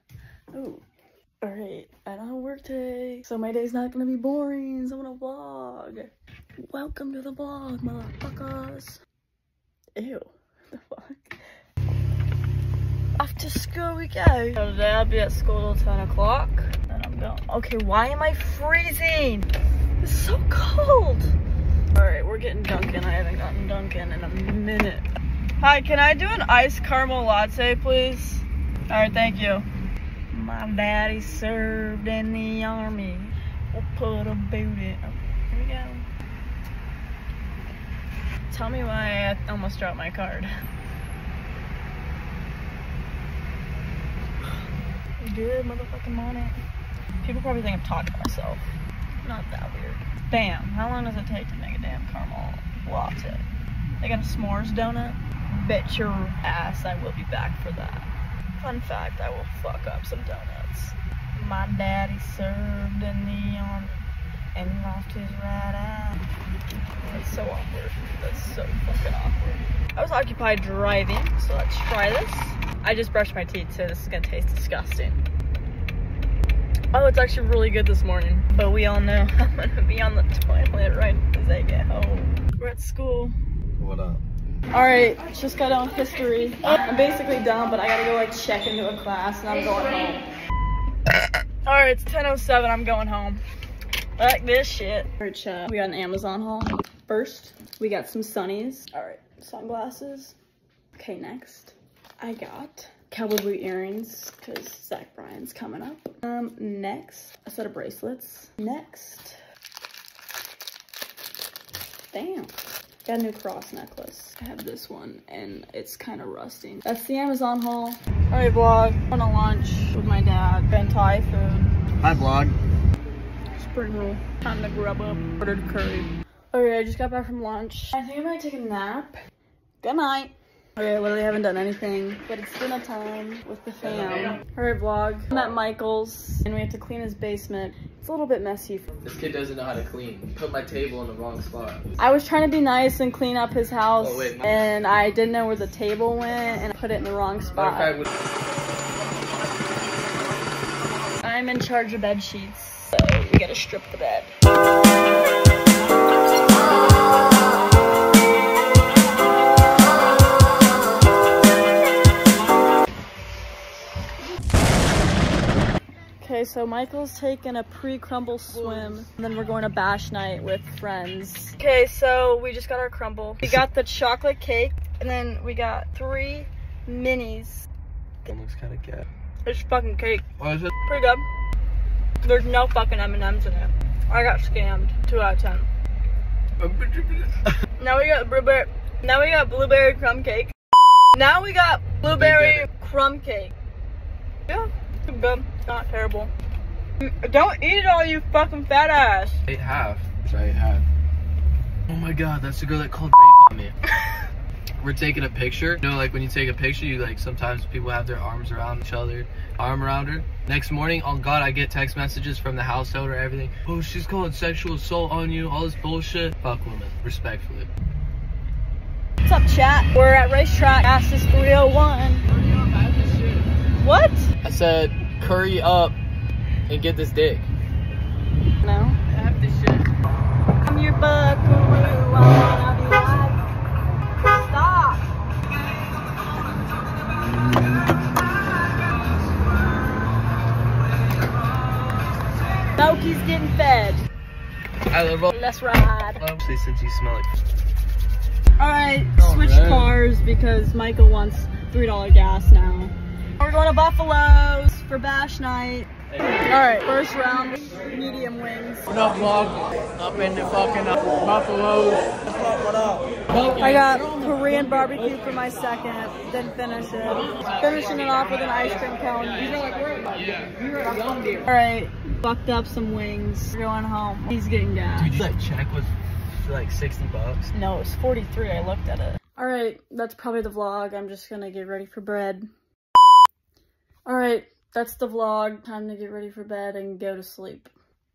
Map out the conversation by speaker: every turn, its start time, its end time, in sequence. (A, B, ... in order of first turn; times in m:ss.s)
0:00.5-0:00.8 A
0:01.4-0:09.0 A
0:10.0-0:11.4 A
0:13.2-0:19.5 A
0:20.0-0:21.4 A
0:21.9-0:25.1 A
0:25.6-0:29.7 A
0:30.3-0:36.1 A
0:38.5-0:40.5 A
0:45.2-0:46.6 A
0:47.2-0:48.6 A
0:49.2-0:53.5 A
0:54.0-0:58.1 A
0:58.6-1:04.0 A
1:04.6-1:06.2 A
1:07.0-1:15.2 A
1:16.9-1:23.3 A
1:23.8-1:24.2 B
1:24.7-1:30.2 A
1:31.6-1:33.4 A
1:34.2-1:40.4 A
1:41.0-1:49.4 A
1:52.1-2:01.8 A
2:02.0-2:02.5 B
2:03.6-2:09.2 A
2:09.8-2:18.9 A
2:19.0-2:21.8 B
2:22.0-2:28.0 A
2:24.0-2:24.5 B
2:27.6-2:28.1 B
2:31.2-2:34.3 A
2:46.2-2:57.7 A
2:58.3-2:59.0 B
2:59.4-3:00.2 A
3:00.4-3:00.7 B
3:00.8-3:01.2 A
3:02.2-3:05.7 A
3:06.6-3:07.6 B
3:07.8-3:10.5 A
3:11.2-3:13.5 A
3:12.0-3:12.6 B
3:14.5-3:16.3 A
3:17.0-3:19.4 A
3:19.5-3:20.8 B
3:21.9-3:23.8 B
3:24.8-3:37.7 B
3:39.2-3:42.2 A
3:42.3-3:43.5 B
3:43.8-3:44.3 A
3:44.4-3:46.0 B
3:46.7-3:47.5 B
3:48.6-3:49.0 A
3:49.1-3:49.9 B
3:50.6-3:53.4 A
3:54.2-3:55.1 A
4:02.8-4:04.0 A
4:04.9-4:05.3 B
4:05.3-4:06.2 A
4:06.2-4:07.3 B
4:08.6-4:15.9 A
4:09.2-4:09.9 B
4:16.4-4:18.9 A
4:19.0-4:22.1 B
4:23.6-4:29.7 A
4:30.2-4:30.5 B
4:31.4-4:35.2 A
4:35.0-4:37.5 B
4:37.5-4:42.5 A
4:44.0-4:47.7 A